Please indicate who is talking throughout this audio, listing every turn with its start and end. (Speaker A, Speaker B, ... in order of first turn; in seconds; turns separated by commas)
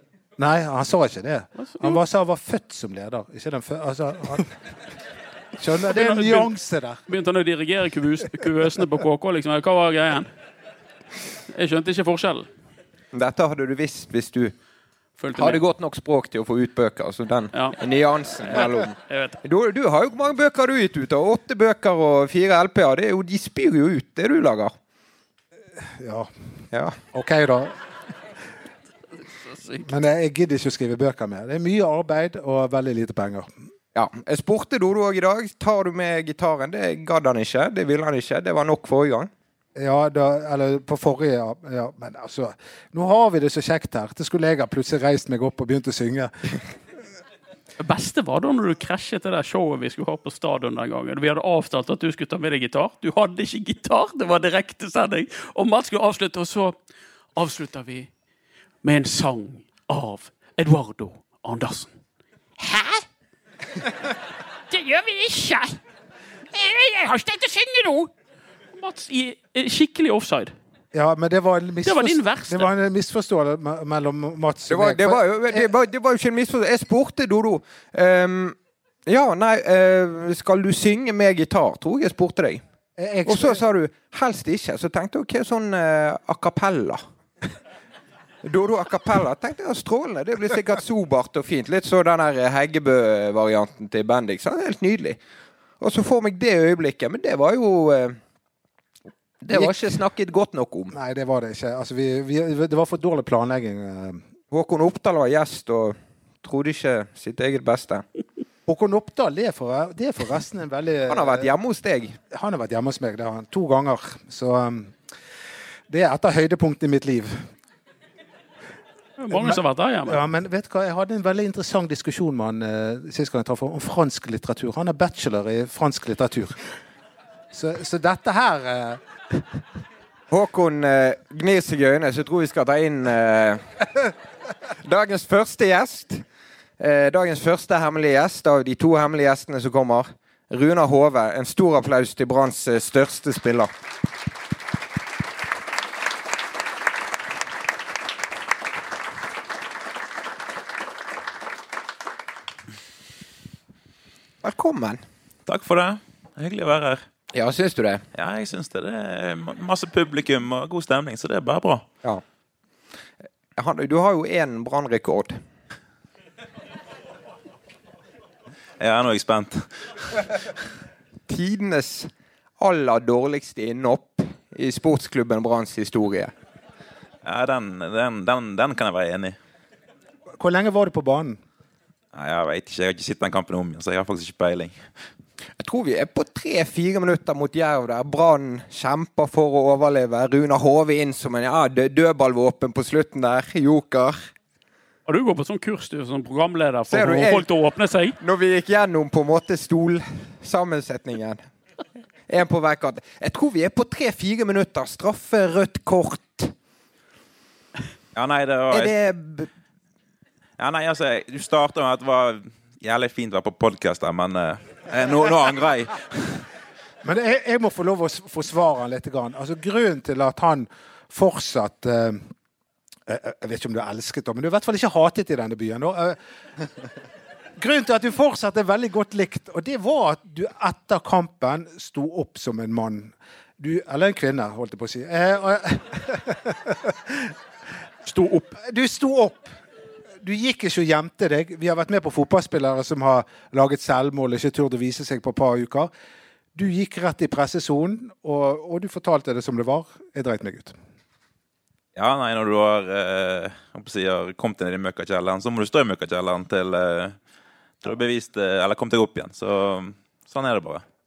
Speaker A: 0.4-4.5, Speaker B: 1.6-2.0, Speaker A: 5.6-7.0, Speaker B: 5.9-6.5, Speaker B: 7.1-10.3, Speaker B: 11.5-12.5, Speaker C: 13.1-14.5, Speaker B: 15.2-15.6, Speaker C: 15.3-24.7, Speaker B: 18.4-19.4, Speaker A: 25.8-26.3, Speaker C: 26.7-27.0, Speaker A: 27.1-27.8, Speaker A: 29.8-33.5, Speaker C: 33.9-39.3, Speaker A: 39.8-46.3, Speaker B: 47.8-56.8, Speaker B: 57.4-58.1, Speaker B: 58.8-61.9, Speaker B: 62.6-63.0, Speaker B: 64.7-65.8, Speaker B: 66.5-68.1, Speaker B: 68.7-70.5, Speaker A: 70.9-75.7, Speaker B: 71.8-72.7, Speaker C: 74.7-82.6, Speaker A: 83.0-83.6, Speaker C: 83.2-87.0, Speaker C: 88.4-95.2, Speaker C: 95.8-98.2, Speaker C: 99.4-100.9, Speaker A: 99.5-99.9, Speaker A: 100.9-104.2, Speaker C: 104.5-108.0, Speaker A: 108.7-111.5, Speaker C: 111.1-112.2, Speaker A: 112.3-115.0, Speaker A: 115.9-117.5, Speaker B: 119.2-120.2, Speaker A: 119.3-126.6, Speaker A: 127.5-129.6, Speaker C: 130.3-133.6, Speaker C: 134.8-136.2, Speaker C: 136.8-143.7, Speaker C: 154.4-155.0, Speaker D: 155.4-157.0, Speaker C: 157.3-158.0, Speaker D: 158.1-161.8, Speaker C: 163.6-165.4, Speaker D: 168.8-170.3, Speaker C: 171.3-176.3, Speaker D: 177.2-179.4, Speaker A: 180.4-181.4, Speaker D: 182.1-184.8, Speaker C: 185.6-194.2, Speaker B: 195.1-198.2, Speaker C: 196.9-197.5, Speaker C: 198.2-201.4, Speaker C: 202.3-206.5, Speaker D: 208.1-208.9, Speaker C: 208.7-209.5, Speaker D: 210.6-216.5, Speaker A: 217.0-222.3, Speaker A: 223.1-226.2, Speaker A: 227.6-237.3, Speaker B: 238.1-238.5, Speaker A: 238.5-239.5, Speaker A: 240.2-245.9, Speaker A: 246.5-250.7, Speaker D: 251.9-257.1, Speaker D: 257.8-260.8